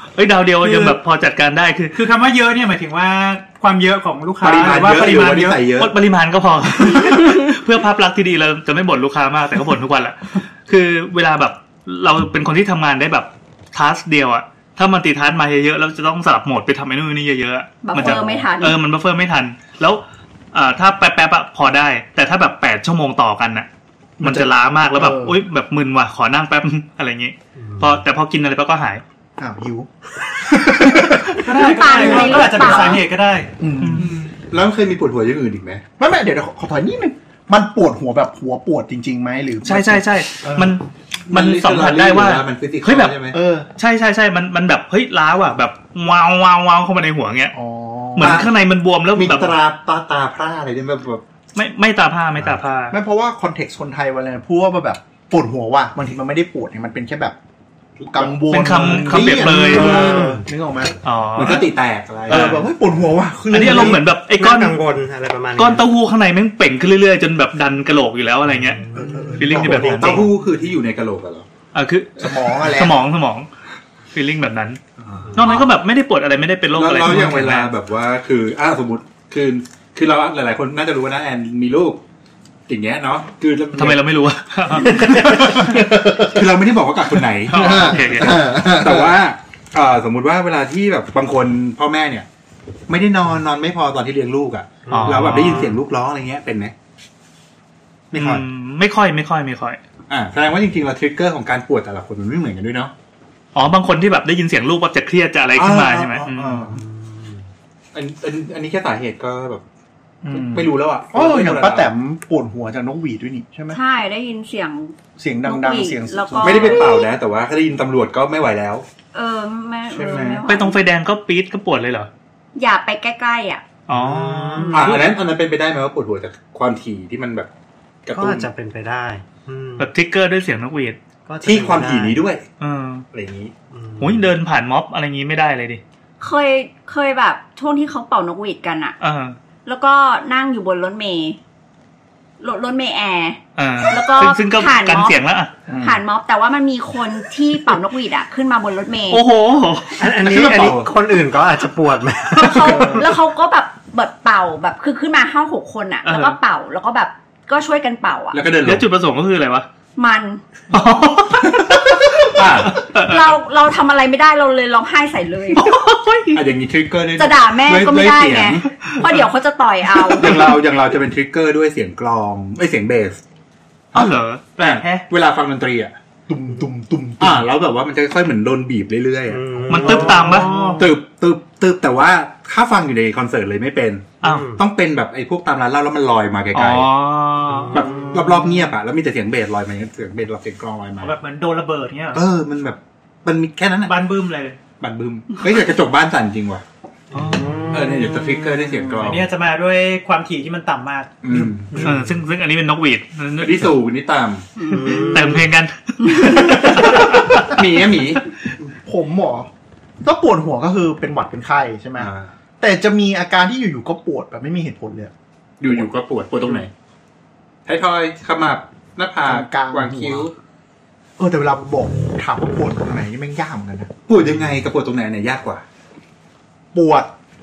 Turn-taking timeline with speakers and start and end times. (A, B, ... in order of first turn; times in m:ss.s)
0:00.2-0:02.0 A
0:00.6-0:01.0 B
0:01.9-0:05.7 B
0:04.4-0:06.0 C
0:05.8-0:20.0 A
0:17.8-0:18.8 D
0:18.0-0:18.4 E
0:20.5-0:23.7 A
0:24.2-0:25.4 E
0:24.2-0:29.0 A
0:27.6-0:28.0 F
0:29.4-0:33.0 E
0:31.4-0:34.3 B
0:31.6-0:33.0 D
0:33.6-0:34.1 E
0:33.8-0:34.1 A
0:34.4-0:35.8 C
0:36.0-0:40.8 E
0:39.6-0:43.2 A
0:41.3-0:43.4 C
0:43.3-0:43.7 E
0:43.8-0:47.6 A
0:47.5-0:48.5 E
0:48.2-0:49.6 A
0:48.2-0:48.5 C
0:49.1-0:51.2 C
0:51.6-0:53.0 A
0:52.9-0:57.4 E
0:58.0-1:00.3 C
0:58.1-1:01.0 E
0:58.5-1:00.1 A
0:59.7-1:00.4 F
1:01.0-1:01.7 A
1:01.4-1:02.7 C
1:02.3-1:04.0 E
1:02.3-1:02.6 A
1:03.5-1:04.8 A
1:03.7-1:05.8 F
1:05.6-1:10.2 A
1:08.6-1:09.5 F
1:09.0-1:10.3 E
1:09.5-1:11.5 C
1:11.7-1:13.5 A
1:12.2-1:13.0 E
1:14.1-1:14.8 A
1:15.1-1:15.4 E
1:15.3-1:15.6 F
1:15.4-1:17.7 A
1:16.8-1:22.0 C
1:22.7-1:24.0 C
1:23.8-1:25.6 A
1:24.9-1:32.3 C
1:25.2-1:26.4 E
1:27.5-1:28.4 A
1:27.5-1:29.2 E
1:32.9-1:36.7 C
1:34.9-1:35.4 F
1:34.9-1:35.8 A
1:38.1-1:38.5 C
1:38.2-1:39.8 A
1:40.1-1:42.9 C
1:43.5-1:46.6 A
1:45.6-1:46.7 C
1:46.2-1:46.8 E
1:46.8-1:47.4 F
1:47.9-1:49.6 C
1:50.2-1:53.8 E
1:50.3-1:51.9 C
1:53.7-1:57.1 D
1:55.2-1:57.0 E
1:56.4-1:58.8 C
1:59.1-2:00.8 D
1:59.9-2:00.4 C
2:00.5-2:02.1 A
2:02.6-2:03.6 D
2:03.9-2:05.0 A
2:03.9-2:05.0 F
2:04.6-2:07.5 C
2:08.1-2:08.5 C
2:08.1-2:09.9 F
2:09.8-2:11.0 A
2:11.3-2:12.2 F
2:11.4-2:12.4 C
2:12.6-2:13.1 A
2:13.1-2:13.5 C
2:13.7-2:14.2 F
2:14.0-2:15.8 A
2:16.2-2:19.0 D
2:19.0-2:19.4 A
2:19.7-2:21.4 D
2:22.4-2:25.2 D
2:23.6-2:25.5 A
2:25.7-2:26.0 E
2:25.8-2:29.2 D
2:29.1-2:30.0 A
2:30.0-2:33.0 F
2:30.2-2:30.9 C
2:32.3-2:38.4 D
2:32.7-2:33.0 E
2:36.0-2:36.4 A
2:38.3-2:38.9 C
2:38.6-2:39.7 A
2:40.0-2:40.4 D
2:40.7-2:43.3 A
2:41.6-2:42.9 C
2:43.0-2:45.7 D
2:45.5-2:46.4 A
2:46.3-2:48.6 C
2:47.2-2:50.4 D
2:50.1-2:53.2 C
2:53.9-2:55.9 C
2:53.9-2:54.8 A
2:54.6-2:55.1 B
2:56.3-2:57.5 E
2:57.2-3:00.2 C
2:59.3-3:00.8 F
2:59.7-3:00.5 A
2:59.8-3:00.9 B
3:00.8-3:06.9 C
3:04.2-3:04.6 F
3:06.5-3:07.9 A
3:07.5-3:08.4 F
3:07.7-3:11.1 C
3:11.0-3:12.2 B
3:12.1-3:13.9 C
3:13.8-3:14.6 B
3:14.8-3:16.6 C
3:17.1-3:17.7 A
3:17.2-3:18.1 F
3:17.7-3:19.3 C
3:19.0-3:21.9 B
3:21.2-3:21.9 C
3:21.8-3:23.7 A
3:23.4-3:24.5 C
3:24.6-3:25.2 D
3:24.7-3:25.4 F
3:24.8-3:27.5 A
3:26.8-3:28.2 C
3:28.8-3:29.5 E
3:30.0-3:35.1 E
3:32.0-3:32.3 C
3:35.6-3:36.7 C
3:37.7-3:40.3 C
3:39.2-3:40.3 E
3:41.2-3:43.9 E
3:44.1-3:45.6 C
3:46.7-3:47.1 E